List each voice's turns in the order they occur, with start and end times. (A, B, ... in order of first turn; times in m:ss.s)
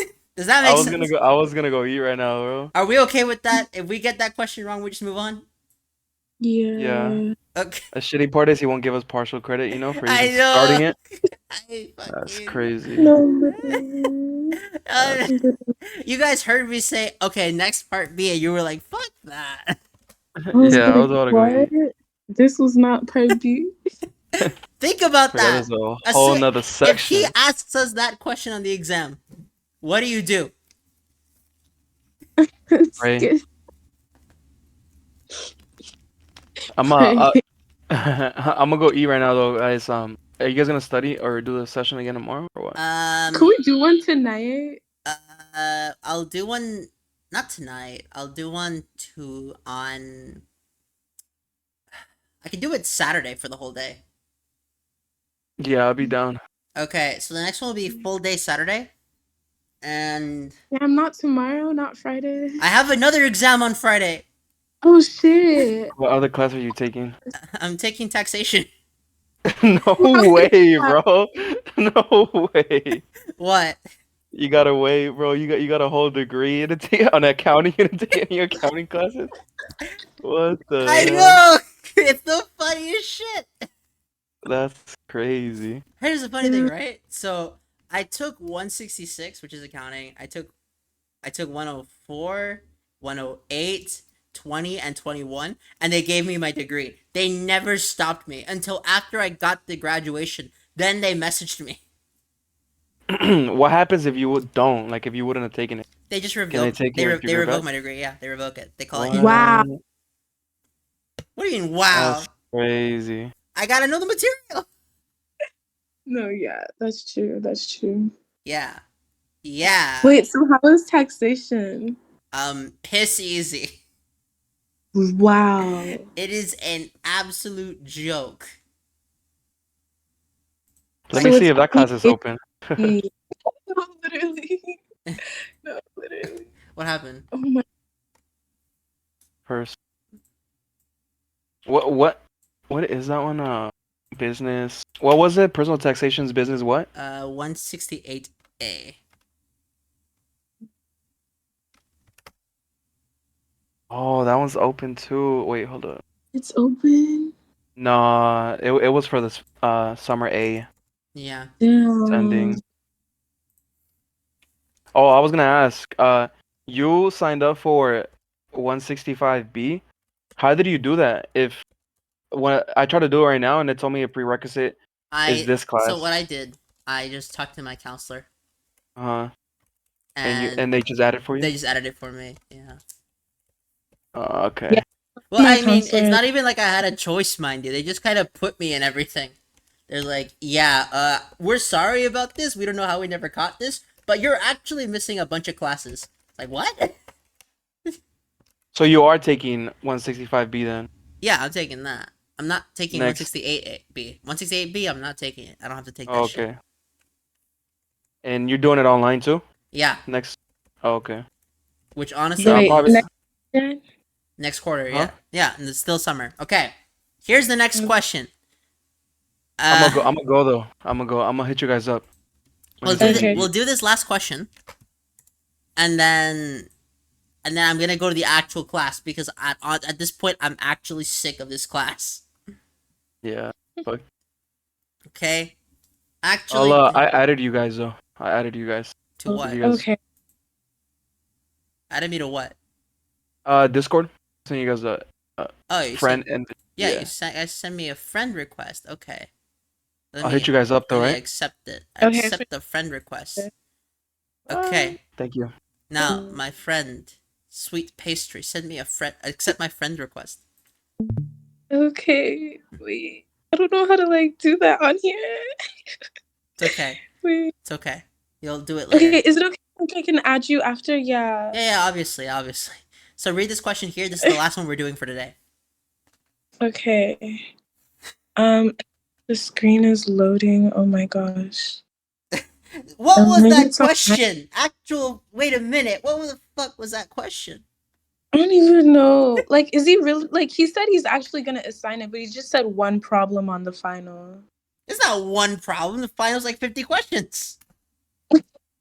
0:00.4-0:01.0 A
0:00.6-0:02.7 B
0:00.8-0:01.1 C
0:02.7-0:05.4 A
0:06.4-0:07.3 C
0:06.8-0:07.2 B
0:07.9-0:11.0 B
0:10.0-0:10.9 A
0:11.5-0:13.1 A
0:12.1-0:13.1 B
0:13.0-0:14.6 C
0:14.9-0:15.4 A
0:15.3-0:15.6 C
0:16.0-0:19.8 A
0:20.4-0:21.7 B
0:20.5-0:23.7 C
0:24.8-0:29.2 A
0:25.3-0:27.3 B
0:29.8-0:30.5 A
0:32.7-0:33.4 C
0:33.0-0:33.3 B
0:36.8-0:37.4 B
0:36.8-0:37.4 C
0:37.9-0:42.8 B
0:42.8-0:43.5 A
0:43.3-0:44.8 C
0:45.1-0:50.4 A
0:52.4-0:54.0 A
0:55.6-0:56.4 B
0:56.8-0:58.9 A
0:59.8-1:00.6 A
1:00.7-1:02.6 C
1:02.6-1:04.3 A
1:04.8-1:05.9 C
1:06.0-1:07.2 B
1:07.6-1:08.7 A
1:09.6-1:13.0 B
1:10.0-1:11.0 C
1:13.4-1:13.8 A
1:14.3-1:19.3 B
1:20.2-1:21.4 B
1:20.8-1:23.6 A
1:24.4-1:25.8 B
1:26.0-1:30.5 A
1:26.4-1:26.7 C
1:31.2-1:41.8 A
1:43.1-1:45.9 B
1:46.1-1:49.4 A
1:46.5-1:47.6 B
1:48.9-1:49.8 B
1:49.2-1:49.7 C
1:51.4-1:52.3 A
1:51.9-1:53.3 B
1:53.5-1:54.7 A
1:56.1-1:58.1 C
1:58.4-1:58.8 A
1:59.4-2:00.2 A
2:00.0-2:02.0 C
2:02.3-2:03.8 A
2:05.0-2:06.0 C
2:05.6-2:08.5 A
2:11.1-2:12.9 B
2:11.1-2:12.2 C
2:12.8-2:13.1 C
2:13.8-2:14.8 C
2:15.6-2:16.5 C
2:16.8-2:17.3 A
2:17.4-2:17.6 C
2:19.5-2:19.8 B
2:21.7-2:26.9 B
2:27.0-2:29.0 A
2:33.9-2:36.0 B
2:36.3-2:37.3 C
2:37.8-2:40.7 B
2:41.2-2:41.5 A
2:41.6-2:42.6 C
2:42.1-2:42.6 B
2:45.0-2:49.8 B
2:50.4-2:51.6 B
2:52.3-2:56.1 B
2:55.1-2:58.3 A
2:59.0-2:59.3 B
3:00.2-3:00.7 A
3:00.2-3:01.5 B
3:01.4-3:02.8 A
3:04.2-3:04.8 B
3:05.3-3:09.3 A
3:05.4-3:06.2 C
3:09.9-3:16.9 A
3:18.7-3:20.9 B
3:21.2-3:26.4 A
3:22.9-3:23.3 B
3:26.1-3:26.6 B
3:28.2-3:29.5 B
3:29.7-3:30.0 A
3:30.1-3:31.2 B
3:32.0-3:32.9 A
3:32.4-3:33.8 C
3:32.4-3:33.0 B
3:34.4-3:38.3 A
3:39.6-3:40.1 A
3:39.7-3:42.1 B
3:42.8-3:43.5 B
3:42.8-3:44.5 A
3:43.0-3:43.4 C
3:45.8-3:46.7 A
3:47.4-3:52.2 A
3:53.2-3:54.0 B
3:55.1-3:55.6 A
3:56.2-3:57.0 A
3:56.5-3:59.8 B
3:59.2-3:59.6 A
3:59.3-4:00.0 C
4:01.9-4:02.6 A
4:03.5-4:07.1 B
4:05.7-4:06.2 A
4:06.8-4:09.3 A
4:10.1-4:13.5 A
4:10.2-4:11.2 B
4:12.0-4:12.4 C
4:14.5-4:15.0 A
4:14.5-4:15.5 B
4:15.9-4:20.4 A
4:16.0-4:16.4 C
4:21.7-4:25.4 C
4:26.6-4:27.0 A
4:26.6-4:27.5 C
4:27.6-4:29.2 A
4:28.9-4:31.6 C
4:31.5-4:35.4 A
4:36.6-4:37.4 C
4:38.4-4:38.7 C
4:39.3-4:41.8 C
4:43.0-4:47.6 A
4:43.2-4:44.2 C
4:48.3-4:54.4 C
4:54.9-4:57.6 A